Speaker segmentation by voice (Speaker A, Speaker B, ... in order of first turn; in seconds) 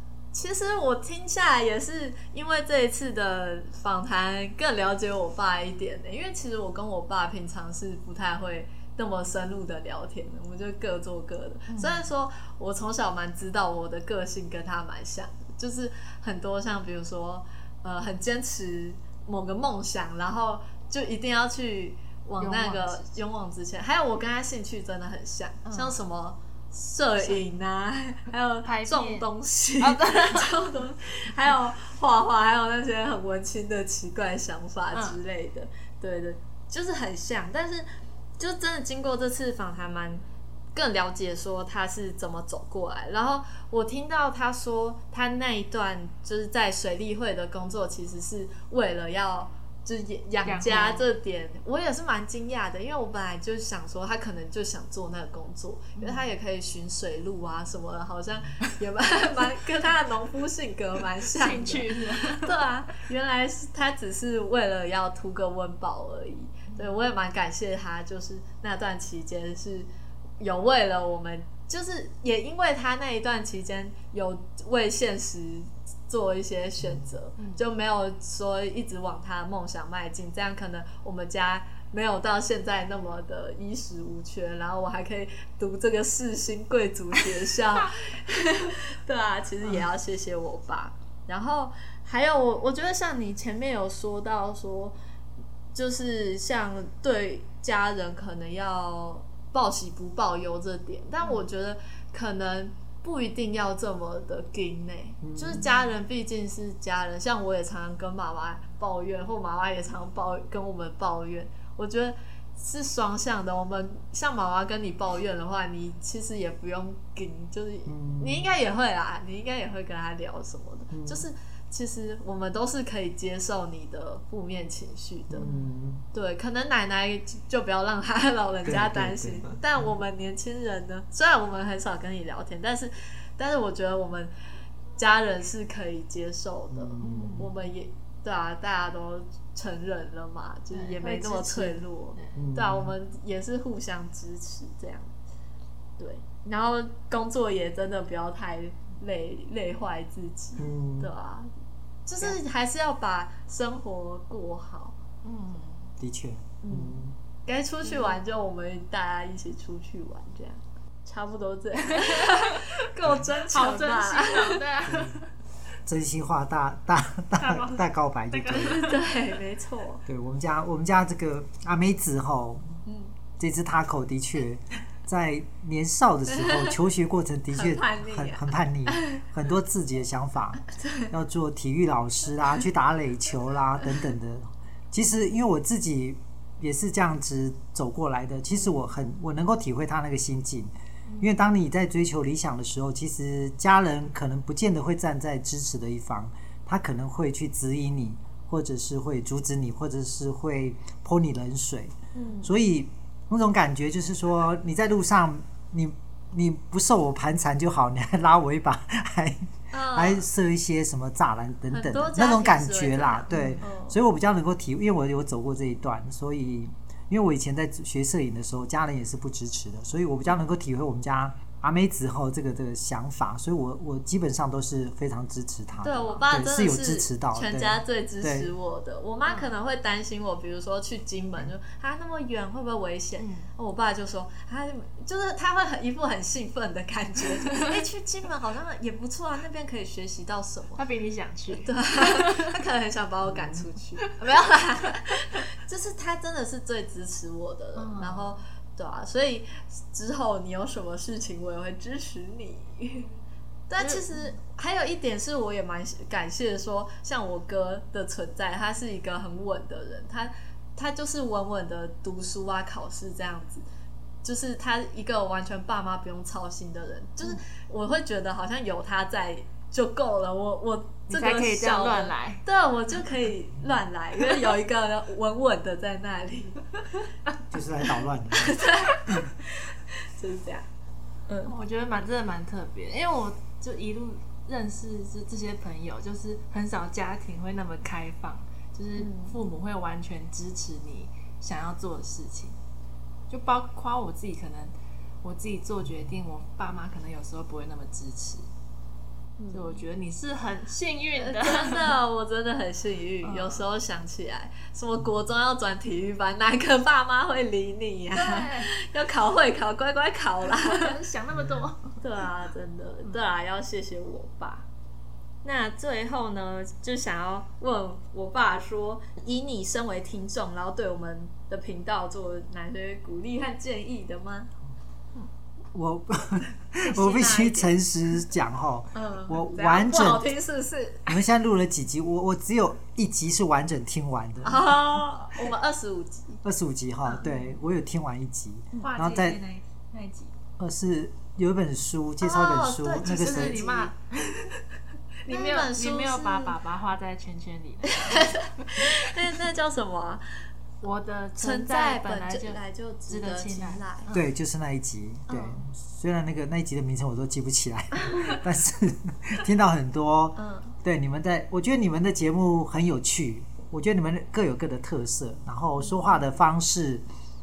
Speaker A: 0.3-37.9, 38.4-95.0, 95.7-125.5, 126.1-134.3, 135.0-145.1, 146.0-151.5, 152.1-155.0, 156.6-164.6, 168.6-170.0, 172.8-173.1, 176.3-176.8, 177.5-179.2, 180.7-181.1, 202.1-202.5, 209.7-210.3, 211.7-214.0, 225.8-240.8, 241.5-253.1, 253.7-263.7, 264.2-276.6, 278.3-280.7, 281.3-281.6, 289.0-289.4, 299.4-299.8, 301.2-310.9, 312.0-314.7, 315.4-324.5, 326.8-327.8, 328.9-331.2, 334.4-336.4, 342.2-343.9, 345.3-346.6, 347.9-350.2, 351.4-354.1, 355.3-355.6, 360.4-360.7, 365.8-366.1
Speaker B: 11.7-12.1, 22.4-23.1, 25.6-26.0, 28.6-30.6, 50.4-51.1, 56.0-56.3, 61.3-62.5, 125.4-125.7, 137.0-137.5, 140.7-142.4, 155.2-155.9, 157.9-158.2, 161.9-162.7, 163.5-165.3, 167.4-169.1, 191.1-191.3, 213.3-213.6, 225.9-226.2, 229.3-229.5, 233.2-233.5, 240.8-242.5, 247.8-248.4, 253.8-254.3, 271.1-272.4, 281.4-292.6, 293.3-298.5, 299.5-302.0, 303.2-303.6, 308.1-308.7, 310.5-312.0, 338.8-340.3, 343.0-344.6, 345.2-348.5, 350.8-354.2
Speaker C: 76.8-77.1, 105.2-105.6, 117.9-118.5, 120.9-121.3, 125.3-126.0, 128.7-129.9, 136.7-137.5, 142.3-142.9, 150.6-151.1, 156.0-157.2, 164.8-165.2, 165.8-168.8, 170.1-172.8, 173.4-228.5, 243.3-243.6, 277.5-278.6, 325.7-330.3, 331.1-335.0, 336.4-339.4, 340.6-343.6, 354.1-367.0